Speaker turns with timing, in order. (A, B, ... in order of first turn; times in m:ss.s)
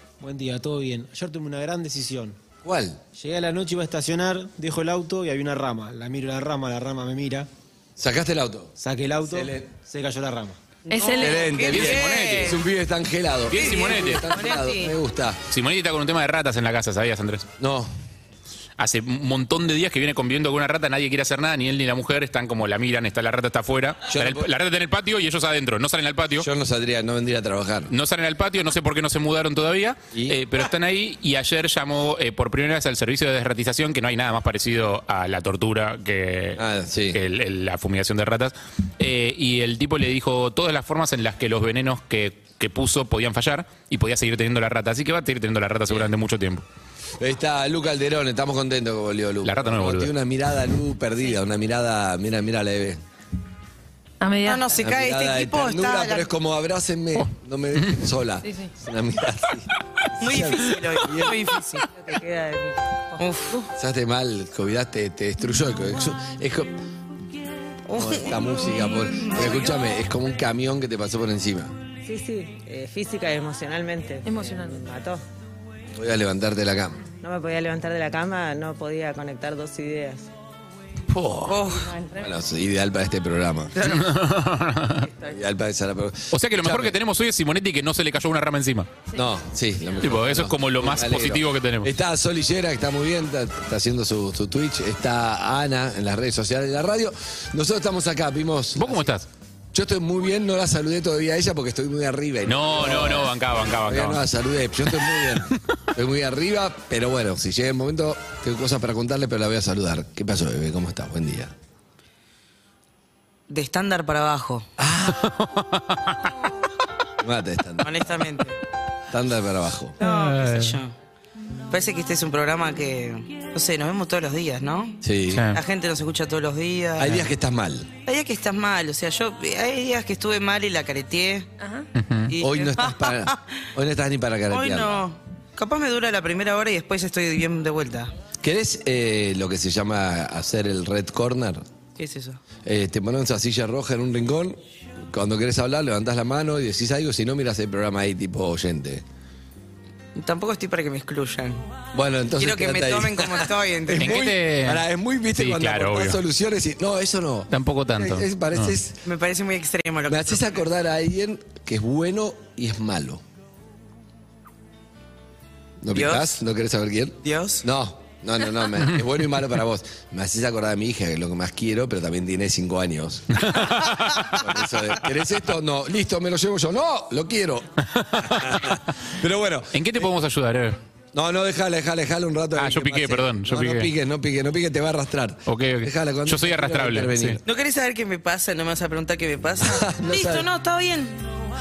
0:00.2-0:02.4 A
0:02.6-0:03.0 B
0:03.1-0:07.5 A
0:08.0-0:08.7 B
0:08.8-0:10.6 A
0:09.3-0:09.6 B
0:10.9-0:11.5 C
0:10.9-0:12.6 D
0:11.2-0:15.4 B
0:11.7-0:12.6 E
0:13.5-0:14.2 E
0:13.5-0:14.9 D
0:15.5-0:17.5 E
0:17.6-0:17.9 B
0:18.8-0:26.5 E
0:24.1-0:24.5 B
0:26.4-0:27.9 B
0:27.9-0:46.6 E
0:36.6-0:37.2 B
0:47.2-0:53.0 B
0:49.4-0:50.1 E
0:54.2-0:54.7 C
0:54.4-0:56.3 D
0:54.8-1:01.4 B
0:58.4-0:58.7 C
1:00.2-1:01.8 D
1:01.9-1:03.2 F
1:03.2-1:03.6 D
1:03.7-1:06.8 B
1:07.9-1:09.8 D
1:07.9-1:11.7 B
1:12.0-1:15.2 F
1:14.2-1:14.9 C
1:15.9-1:17.0 B
1:17.2-1:20.3 F
1:21.1-1:21.6 B
1:21.5-1:21.9 D
1:21.6-1:22.3 F
1:22.2-1:23.7 B
1:23.8-1:24.0 D
1:23.8-1:25.1 E
1:25.3-1:27.0 B
1:26.3-1:28.9 E
1:29.1-1:39.1 B
1:30.0-1:31.9 E
1:38.7-1:39.2 E
1:39.7-1:51.5 B
1:42.5-1:44.2 E
1:44.9-1:45.4 E
1:53.5-1:54.7 D
1:54.8-1:55.2 B
1:55.1-1:56.1 E
1:57.2-1:57.9 B
1:57.8-1:58.5 D
1:59.1-2:00.0 B
2:00.0-2:00.9 D
2:00.0-2:00.8 E
2:01.7-2:05.0 D
2:05.0-2:05.4 B
2:05.3-2:05.6 E
2:05.5-2:07.2 D
2:07.0-2:07.9 B
2:08.0-2:11.5 D
2:11.6-2:11.9 C
2:12.0-2:12.3 E
2:12.3-2:13.4 D
2:12.4-2:15.0 B
2:14.5-2:18.1 D
2:18.4-2:21.6 B
2:22.0-2:22.4 D
2:22.6-2:29.0 B
2:30.2-2:31.7 D
2:31.9-2:39.0 B
2:32.4-2:34.2 D
2:34.0-2:34.8 E
2:35.4-2:36.2 E
2:37.5-2:38.7 E
2:39.0-2:40.6 D
2:40.1-2:43.2 B
2:45.8-2:53.6 B
2:45.9-2:46.3 D
2:47.2-2:47.6 D
2:53.4-2:54.3 E
2:54.3-3:00.0 B
2:57.9-2:58.8 E
2:59.7-3:00.8 E
3:01.1-3:07.4 B
3:02.6-3:03.9 E
3:05.5-3:07.4 E
3:07.4-3:11.2 D
3:09.6-3:10.4 B